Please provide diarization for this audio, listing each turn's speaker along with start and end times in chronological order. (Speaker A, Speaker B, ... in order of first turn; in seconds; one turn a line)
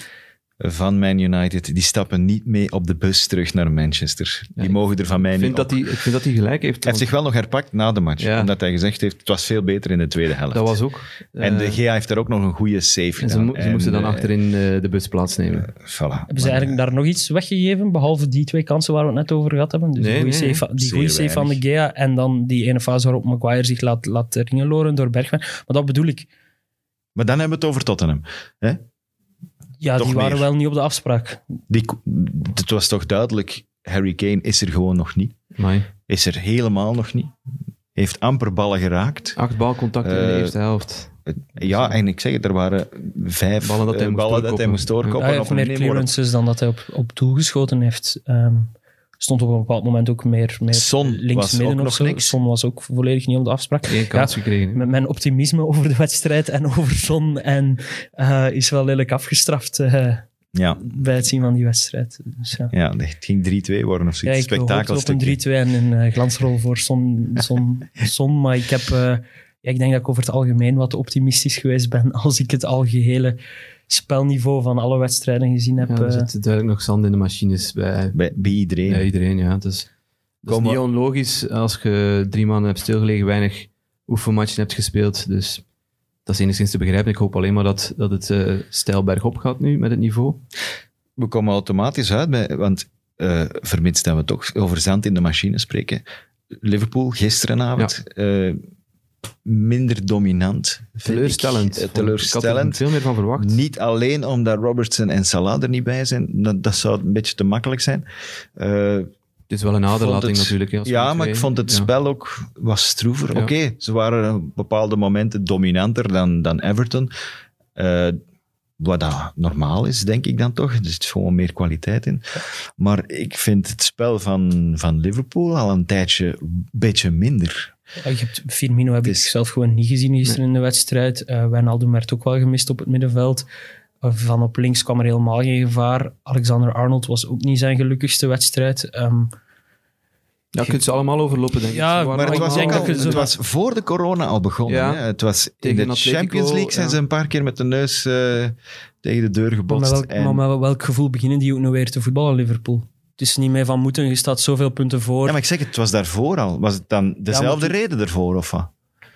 Speaker A: 0.6-5.8
Speaker B: 4.6-7.1
Speaker A: 6.8-10.8
Speaker B: 8.2-8.5
Speaker B: 10.5-11.8
Speaker A: 11.4-14.3
Speaker B: 13.2-15.7
Speaker A: 15.7-16.8
Speaker C: 16.3-26.3
Speaker B: 20.0-20.6
Speaker A: 20.8-21.6
Speaker A: 27.1-28.8
Speaker C: 29.8-31.4
Speaker A: 30.0-30.5
Speaker A: 31.7-35.4
Speaker B: 35.5-35.9
Speaker A: 36.1-37.3
Speaker A: 38.0-39.4
Speaker B: 39.4-42.0
Speaker A: 40.0-40.6
Speaker A: 41.3-46.1
Speaker B: 43.6-45.2
Speaker C: 45.2-60.2
Speaker A: 50.7-52.4
Speaker B: 53.9-54.9
Speaker A: 60.5-60.9
Speaker C: 60.8-62.7
Speaker A: 62.7-65.4
Speaker C: 64.2-73.4
Speaker C: 73.9-76.3
Speaker B: 75.8-79.9
Speaker A: 78.1-79.1
Speaker B: 80.4-85.6
Speaker A: 80.5-80.8
Speaker B: 86.3-90.4
Speaker A: 91.2-96.0
Speaker A: 96.6-98.6
Speaker A: 99.5-102.8
Speaker B: 101.0-103.6
Speaker A: 103.4-109.1
Speaker B: 109.5-111.9
Speaker A: 109.9-117.1
Speaker A: 117.8-118.2
Speaker A: 118.8-127.7
Speaker C: 128.0-133.5
Speaker A: 129.1-129.3
Speaker C: 134.0-139.3
Speaker B: 140.5-143.3
Speaker C: 141.7-143.3
Speaker A: 142.2-150.4
Speaker B: 144.7-145.0
Speaker B: 145.6-147.0
Speaker C: 149.7-155.4
Speaker A: 155.2-158.7
Speaker C: 157.3-157.7